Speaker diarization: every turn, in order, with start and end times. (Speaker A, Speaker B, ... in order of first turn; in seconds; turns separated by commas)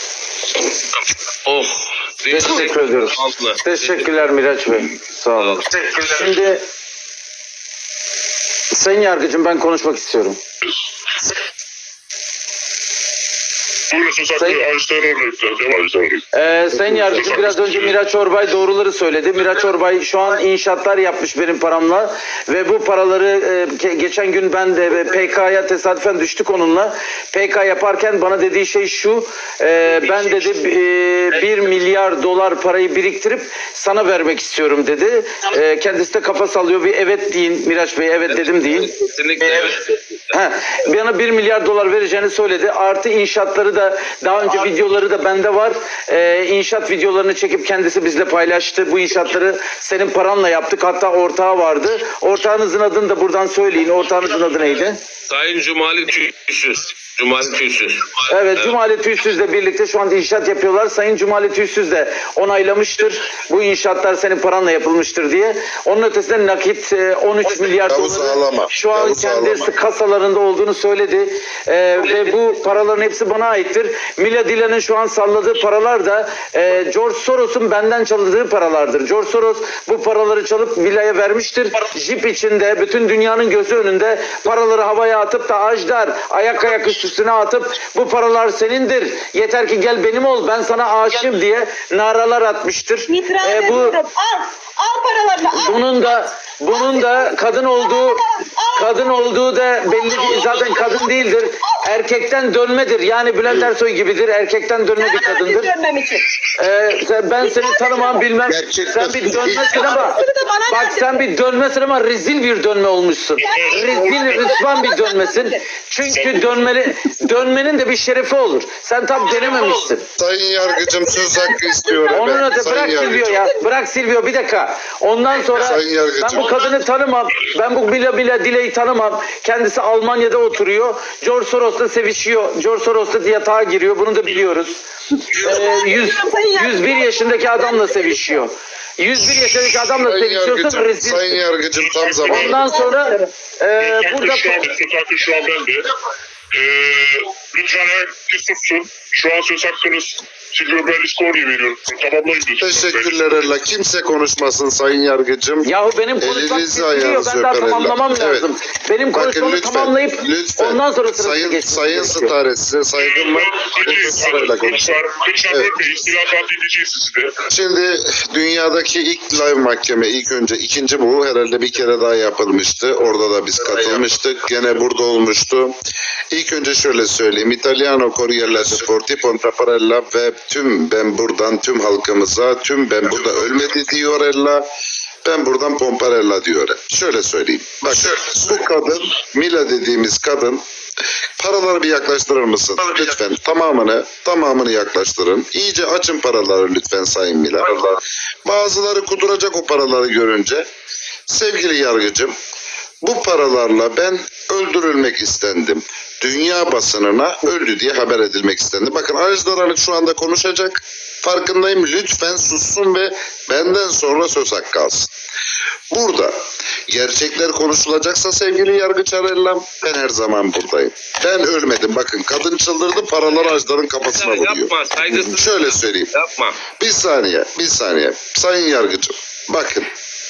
Speaker A: 1.0-4.1, Speaker B: 2.3-6.6, Speaker A: 5.4-5.6, Speaker B: 8.7-10.4, Speaker C: 13.9-16.2, Speaker B: 16.3-38.9, Speaker C: 17.1-18.0, Speaker A: 38.3-40.1, Speaker B: 39.4-39.8, Speaker B: 40.3-55.0, Speaker A: 55.3-58.8, Speaker B: 58.3-94.0, Speaker D: 67.9-69.7, Speaker E: 93.1-95.9, Speaker B: 95.6-98.2, Speaker E: 96.7-99.3, Speaker B: 98.8-105.7, Speaker E: 99.8-101.1, Speaker E: 105.0-106.3, Speaker B: 106.5-120.1, Speaker E: 107.4-108.3, Speaker D: 108.5-110.1, Speaker E: 109.5-111.3, Speaker C: 113.4-114.5, Speaker E: 113.4-115.6, Speaker C: 116.1-116.7, Speaker D: 120.2-123.4, Speaker E: 120.6-123.5, Speaker B: 122.1-134.8, Speaker D: 125.5-126.6, Speaker B: 135.3-141.4, Speaker E: 135.4-138.4, Speaker D: 139.9-142.8, Speaker C: 141.8-142.7, Speaker B: 142.3-144.7, Speaker E: 142.5-143.3, Speaker C: 143.8-145.9, Speaker C: 146.5-153.5, Speaker D: 152.6-158.5, Speaker B: 155.7-162.3, Speaker D: 159.1-164.9, Speaker C: 162.9-167.4, Speaker D: 167.5-175.8, Speaker D: 176.3-184.7, Speaker D: 185.2-190.6, Speaker D: 191.4-200.7, Speaker D: 201.3-202.3, Speaker D: 203.0-215.1, Speaker D: 215.9-226.1, Speaker A: 224.1-226.6, Speaker D: 226.8-229.9